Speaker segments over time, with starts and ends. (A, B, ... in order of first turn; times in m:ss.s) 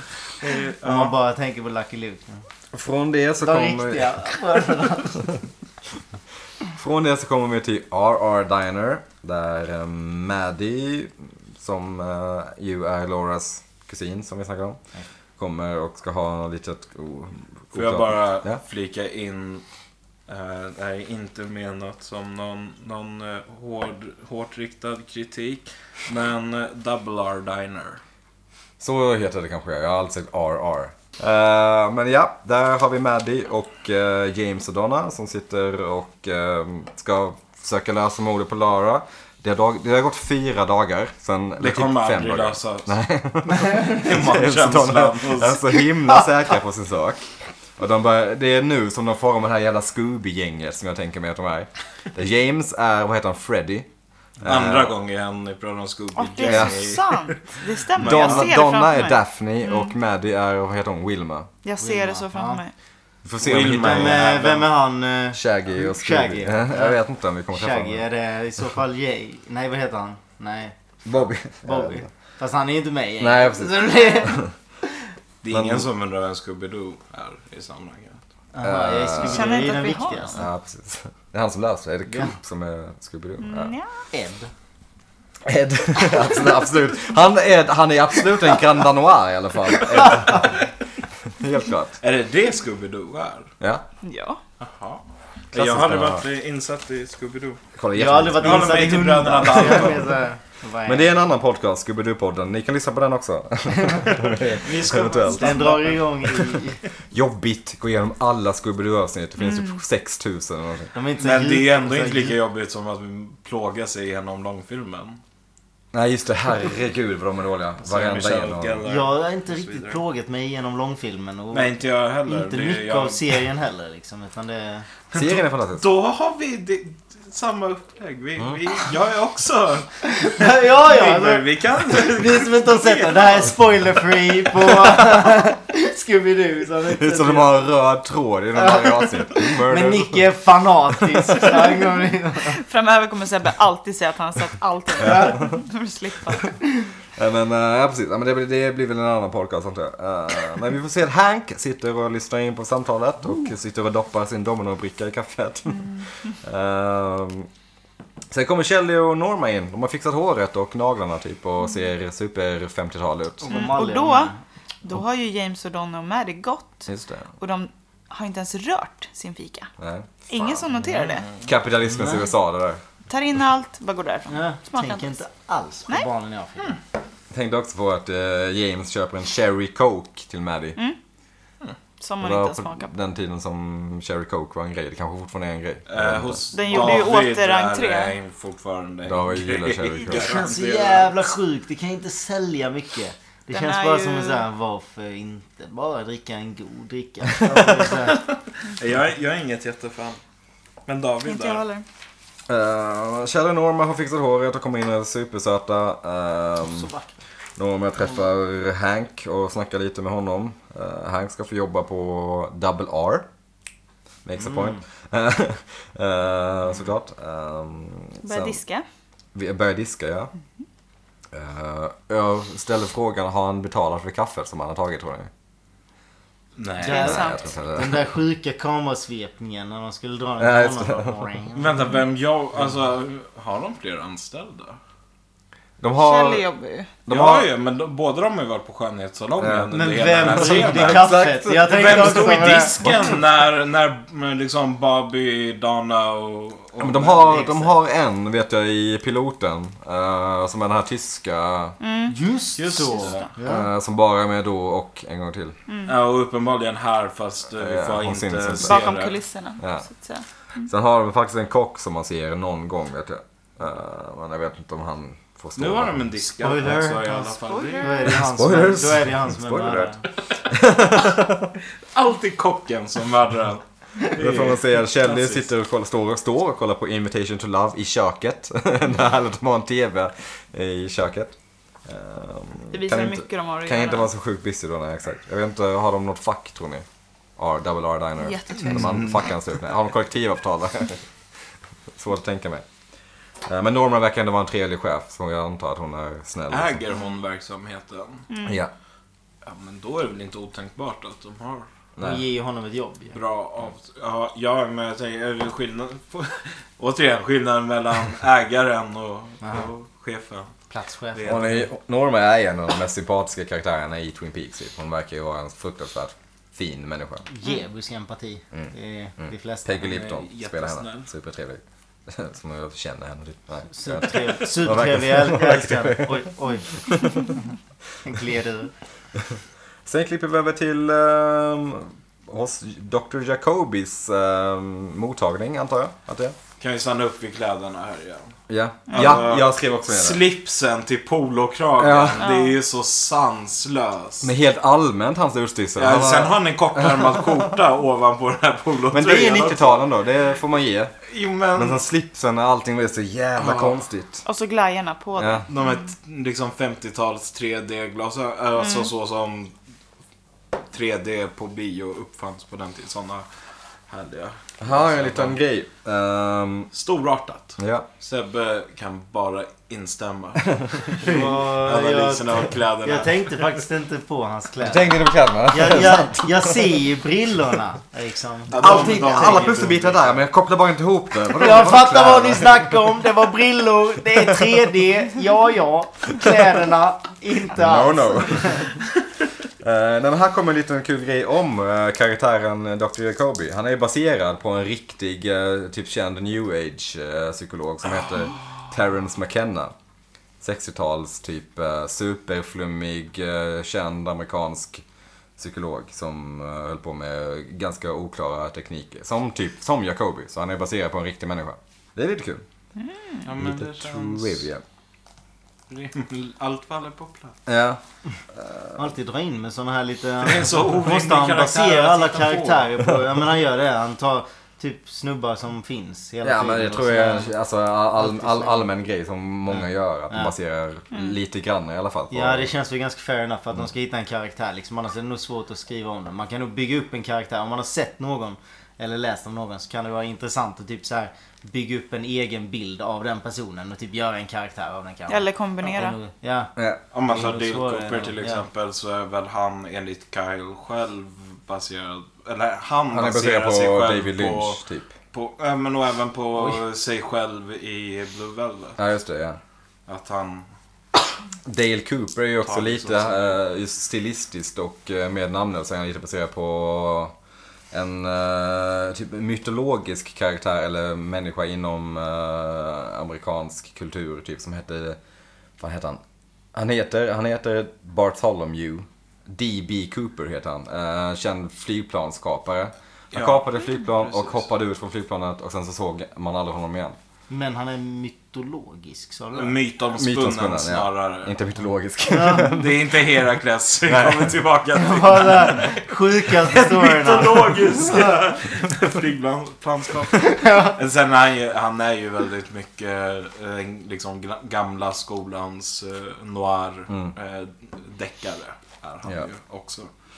0:00.4-0:01.1 A
0:00.8-0:02.4 B
0:02.7-0:04.2 C
0:03.4-0:05.3 B
0:06.7-0:14.8 C
0:15.4-0:18.6 C
0:17.7-0:19.6 A
0:20.3-0:28.0 A
0:28.8-0:53.9 C
0:41.6-0:42.9 A
0:43.6-0:45.8 A
0:54.4-0:54.9 C
0:54.4-0:58.5 A
0:56.2-0:59.9 D
0:56.4-0:56.9 C
0:58.0-1:01.5 C
1:01.6-1:02.7 D
1:01.8-1:02.6 B
1:03.2-1:04.4 C
1:03.4-1:04.7 A
1:03.7-1:07.0 B
1:05.3-1:08.0 C
1:07.5-1:10.7 B
1:11.0-1:12.1 C
1:11.6-1:14.4 B
1:13.2-1:14.5 C
1:15.4-1:18.2 A
1:15.5-1:15.9 C
1:18.5-1:20.4 B
1:18.6-1:19.7 C
1:19.2-1:20.4 D
1:20.3-1:23.7 C
1:22.1-1:22.3 B
1:23.4-1:24.0 D
1:24.1-1:24.5 B
1:25.4-1:30.7 C
1:31.3-1:32.0 C
1:32.0-1:33.5 A
1:33.6-1:33.8 C
1:34.0-1:34.4 D
1:34.6-1:37.6 A
1:35.5-1:36.2 C
1:37.8-1:39.9 C
1:37.9-1:41.1 B
1:38.4-1:40.2 A
1:40.8-1:45.9 C
1:44.6-1:46.0 A
1:45.3-1:46.8 B
1:47.1-1:50.9 C
1:49.4-1:49.8 D
1:50.9-1:52.4 B
1:51.2-1:55.2 A
1:55.9-1:58.8 C
1:57.8-2:00.0 A
1:58.8-2:01.7 B
2:01.5-2:03.4 A
2:02.3-2:04.9 B
2:05.1-2:13.5 A
2:05.1-2:05.8 C
2:10.0-2:17.6 B
2:16.9-2:20.3 C
2:18.6-2:22.6 B
2:22.5-2:26.6 D
2:27.2-2:37.5 C
2:38.3-2:43.5 C
2:43.4-2:44.4 B
2:43.5-2:44.3 D
2:44.8-2:49.7 D
2:46.9-2:47.3 C
2:49.8-2:50.7 C
2:50.3-2:51.3 D
2:51.0-2:51.4 A
2:51.4-2:52.8 C
2:53.1-2:55.2 D
2:54.3-2:56.8 B
2:57.3-3:00.8 C
3:02.0-3:02.9 D
3:02.2-3:06.4 C
3:05.9-3:11.2 A
3:06.5-3:08.1 D
3:09.0-3:10.4 C
3:10.2-3:18.3 B
3:13.5-3:14.4 D
3:17.9-3:20.2 A
3:20.8-3:21.6 A
3:21.2-3:21.8 D
3:22.5-3:26.9 C
3:26.7-3:27.1 B
3:27.6-3:33.3 C
3:34.2-3:38.6 C
3:34.4-3:34.8 B
3:38.2-3:38.8 D
3:39.3-3:40.3 C
3:41.3-3:45.3 C
3:46.6-3:47.2 A
3:46.8-3:47.5 D
3:46.8-3:51.7 B
3:46.9-3:48.0 C
3:50.4-3:51.2 C
3:51.5-3:54.8 A
3:55.8-3:56.4 C
3:56.0-3:56.9 D
3:57.0-3:57.5 C
3:57.1-4:01.1 A
3:59.4-4:02.4 C
3:59.7-4:02.8 B
4:01.7-4:07.4 A
4:06.8-4:11.8 C
4:07.2-4:07.7 B
4:11.8-4:12.2 D
4:12.1-4:13.6 B
4:12.6-4:13.3 A
4:13.0-4:13.2 D
4:13.4-4:15.6 C
4:15.7-4:15.9 D
4:15.8-4:19.2 A
4:17.6-4:18.9 C
4:18.6-4:20.2 D
4:19.6-4:19.8 C
4:20.6-4:26.1 C
4:25.6-4:28.2 A
4:26.4-4:30.0 B
4:27.4-4:28.0 D
4:28.2-4:29.9 C
4:30.5-4:31.5 C
4:31.9-4:35.4 A
4:34.2-4:41.3 C
4:41.8-4:46.8 C
4:42.7-4:44.1 D
4:47.4-4:51.0 C
4:48.2-4:48.8 D
4:48.6-4:49.2 A
4:51.9-4:52.6 C
4:53.4-4:56.8 C
4:56.5-4:58.3 A
4:58.3-4:58.6 D
4:58.4-4:58.7 C
4:59.4-5:01.7 A
5:02.0-5:02.2 C
5:02.0-5:03.1 B
5:03.1-5:10.5 A
5:10.7-5:11.6 B
5:11.1-5:11.6 A
5:11.2-5:17.2 C
5:17.2-5:19.9 B
5:18.5-5:27.4 C
5:19.8-5:21.1 A
5:23.7-5:27.3 B
5:28.0-5:28.7 B
5:29.2-5:36.4 C
5:36.6-5:38.3 A
5:38.5-5:40.2 C
5:38.9-5:39.2 D
5:38.9-5:44.3 A
5:41.8-5:42.2 C
5:42.2-5:42.6 D
5:44.2-5:47.2 C
5:45.8-5:49.8 A
5:48.9-5:50.9 C
5:51.0-5:51.8 A
5:51.5-5:54.2 C
5:53.4-5:53.8 A
5:54.2-5:55.8 D
5:55.2-5:55.4 C
5:55.5-5:59.5 A
5:58.6-5:58.9 D
6:00.7-6:03.2 A
6:03.9-6:05.4 A
6:04.6-6:06.7 C
6:06.7-6:13.5 A
6:07.6-6:07.9 C
6:11.0-6:19.4 B
6:14.6-6:16.8 C
6:18.5-6:20.2 A
6:18.5-6:23.0 C
6:21.3-6:28.7 B
6:24.1-6:24.6 C
6:27.5-6:28.7 C
6:29.6-6:39.7 C
6:40.4-6:44.8 C
6:45.4-6:52.4 C
6:52.8-6:53.3 D
6:53.2-6:54.4 A
6:53.4-6:54.6 C
6:55.7-6:57.4 A
6:57.4-6:57.8 C
6:58.3-6:58.8 C
6:58.8-7:07.3 B
7:00.2-7:02.7 A
7:06.2-7:12.5 C
7:08.0-7:08.6 B
7:12.1-7:26.5 B
7:25.1-7:26.0 D
7:26.6-7:26.8 C
7:26.9-7:34.6 A
7:27.0-7:28.4 B
7:32.9-7:34.9 C
7:35.1-7:38.8 A
7:38.8-7:39.4 C
7:39.9-7:40.4 A
7:41.4-7:47.1 C
7:42.4-7:43.4 A
7:47.7-7:55.0 C
7:55.6-7:56.0 C
7:56.5-8:07.0 C
8:03.1-8:04.4 A
8:07.3-8:09.6 B
8:09.3-8:11.4 A
8:09.9-8:13.0 C
8:12.1-8:12.5 B
8:12.5-8:29.9 A
8:13.9-8:14.4 C
8:14.7-8:18.2 B
8:20.2-8:20.7 B